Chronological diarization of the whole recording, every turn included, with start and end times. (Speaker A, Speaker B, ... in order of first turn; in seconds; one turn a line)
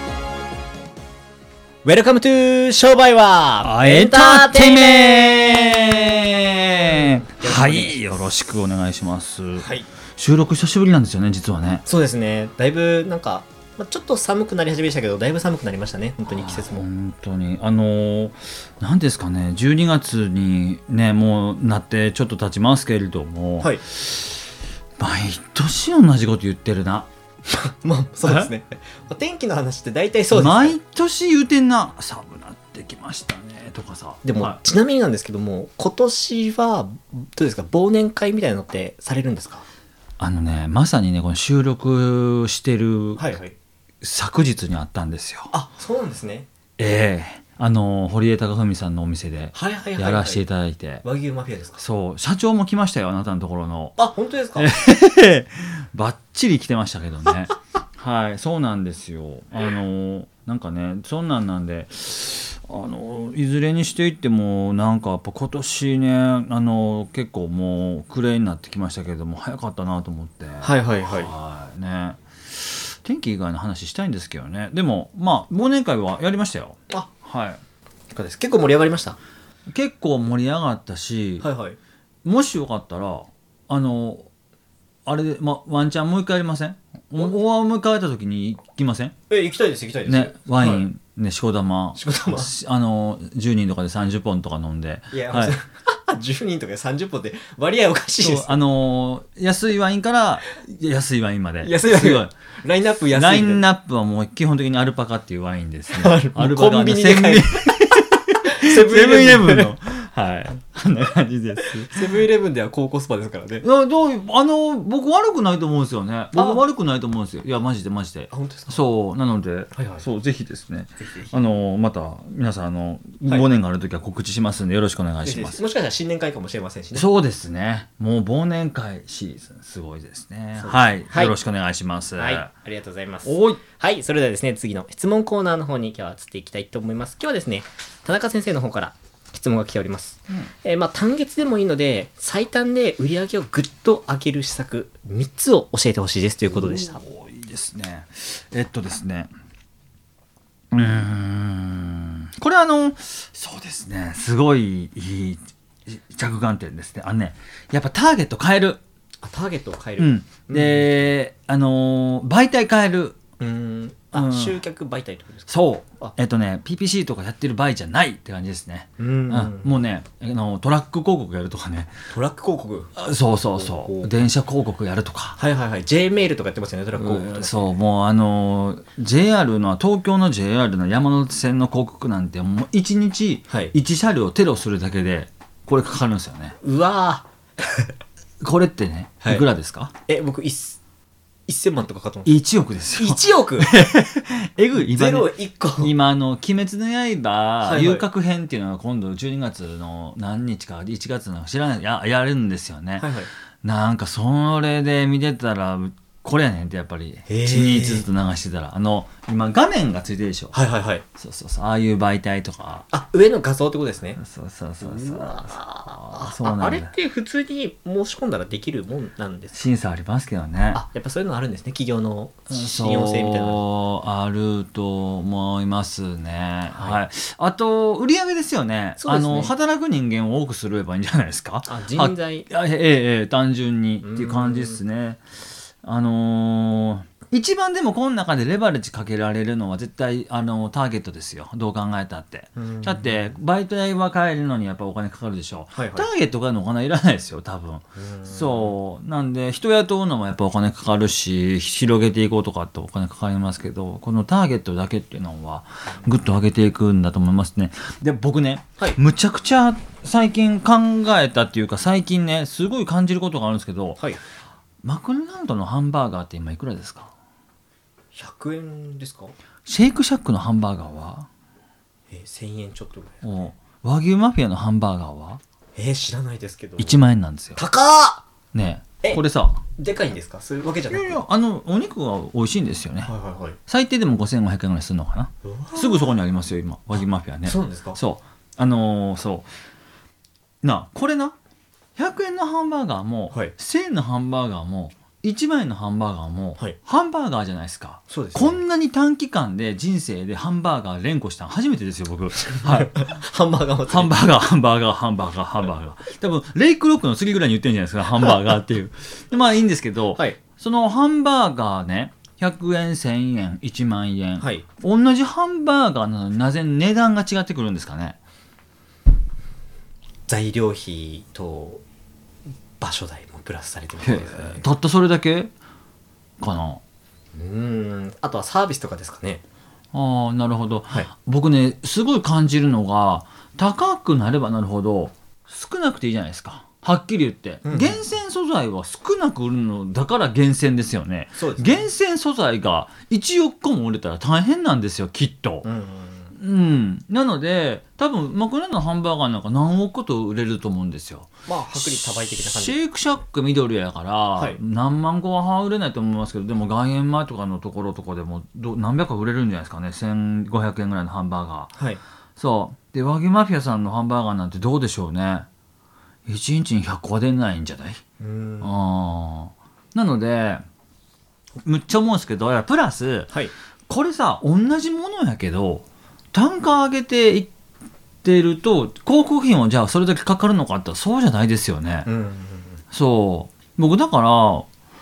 Speaker A: 1.8-8.1
Speaker B: 3.6-11.8
Speaker A: 9.6-9.9
Speaker A: 11.8-16.9
Speaker B: 16.2-24.4
Speaker B: 25.0-27.1
Speaker A: 27.5-30.8
Speaker B: 28.2-28.5
Speaker B: 30.3-34.6
Speaker A: 34.2-39.7
Speaker B: 40.2-43.3
Speaker A: 43.2-43.5
Speaker B: 44.0-45.5
Speaker A: 45.5-46.5
Speaker B: 46.8-51.0
Speaker A: 49.5-50.4
Speaker A: 51.0-51.8
Speaker B: 51.8-54.0
Speaker A: 54.0-54.7
Speaker B: 54.6-77.6
Speaker A: 70.6-71.3
Speaker A: 78.1-79.2
Speaker B: 79.7-81.5
Speaker A: 81.4-81.8
Speaker B: 82.2-84.3
Speaker B: 85.1-89.1
Speaker A: 89.3-90.9
Speaker B: 90.1-95.6
Speaker A: 92.0-92.5
Speaker A: 95.1-98.6
Speaker B: 98.2-102.3
Speaker A: 101.6-103.7
Speaker B: 103.1-112.2
Speaker A: 105.9-107.9
Speaker A: 108.5-109.7
Speaker A: 111.7-113.7
Speaker B: 113.6-125.6
Speaker A: 116.3-116.6
Speaker A: 118.3-118.9
Speaker A: 119.7-120.1
Speaker A: 121.0-121.5
Speaker A: 125.2-127.1
Speaker B: 126.9-132.5
Speaker A: 130.6-131.4
Speaker A: 132.2-147.0
Speaker B: 133.2-133.6
Speaker B: 146.5-149.3
Speaker B: 150.7-158.8
Speaker A: 159.2-160.9
Speaker B: 160.0-163.2
Speaker A: 163.4-166.2
Speaker B: 164.1-164.6
Speaker B: 165.5-172.0
Speaker A: 169.0-169.7
Speaker A: 172.1-172.9
Speaker B: 173.0-175.4
Speaker A: 173.6-174.2
Speaker A: 175.4-177.7
Speaker B: 176.9-186.6
Speaker A: 183.5-183.7
Speaker A: 186.6-187.9
Speaker B: 188.4-189.9
Speaker A: 189.2-189.5
Speaker A: 190.1-190.8
Speaker A: 191.5-192.4
Speaker B: 192.2-210.6
Speaker A: 192.9-193.8
Speaker A: 194.7-195.9
Speaker A: 197.6-198.1
Speaker A: 203.0-203.3
Speaker A: 207.3-208.1
Speaker A: 210.5-211.1
Speaker B: 211.2-212.9
Speaker A: 212.9-214.2
Speaker B: 214.2-216.9
Speaker A: 214.8-219.6
Speaker B: 219.5-220.8
Speaker A: 220.7-223.6
Speaker B: 222.5-235.2
Speaker A: 226.7-227.0
Speaker A: 229.0-229.6
Speaker A: 231.7-232.5
Speaker A: 234.0-234.8
Speaker B: 235.8-264.1
Speaker A: 242.6-243.4
Speaker A: 245.7-246.1
Speaker A: 248.0-248.8
Speaker B: 264.8-267.1
Speaker A: 268.1-269.4
Speaker B: 269.7-271.3
Speaker A: 272.1-273.4
Speaker B: 273.2-275.4
Speaker A: 275.8-277.0
Speaker B: 276.8-277.6
Speaker A: 277.6-278.2
Speaker B: 278.5-279.6
Speaker A: 279.0-281.2
Speaker B: 280.9-283.1
Speaker A: 283.1-283.6
Speaker B: 283.7-289.5
Speaker A: 285.4-286.2
Speaker A: 287.4-288.0
Speaker B: 290.6-291.4
Speaker B: 292.0-303.1
Speaker A: 298.1-298.6
Speaker A: 302.6-304.1
Speaker B: 303.9-318.2
Speaker A: 314.4-314.6
Speaker A: 320.3-321.8
Speaker A: 322.8-324.7
Speaker B: 324.0-325.5
Speaker B: 326.4-326.8
Speaker A: 327.3-329.4
Speaker B: 329.9-345.7
Speaker A: 337.7-338.1
Speaker A: 341.4-341.9
Speaker A: 345.6-346.4
Speaker B: 346.3-361.7
Speaker A: 351.5-352.8
Speaker A: 361.8-362.0
Speaker B: 362.4-365.5
Speaker B: 366.3-368.0
Speaker A: 368.2-368.8
Speaker B: 368.6-370.6
Speaker B: 371.6-377.5
Speaker B: 378.2-382.1
Speaker A: 382.1-382.8
Speaker B: 382.9-384.7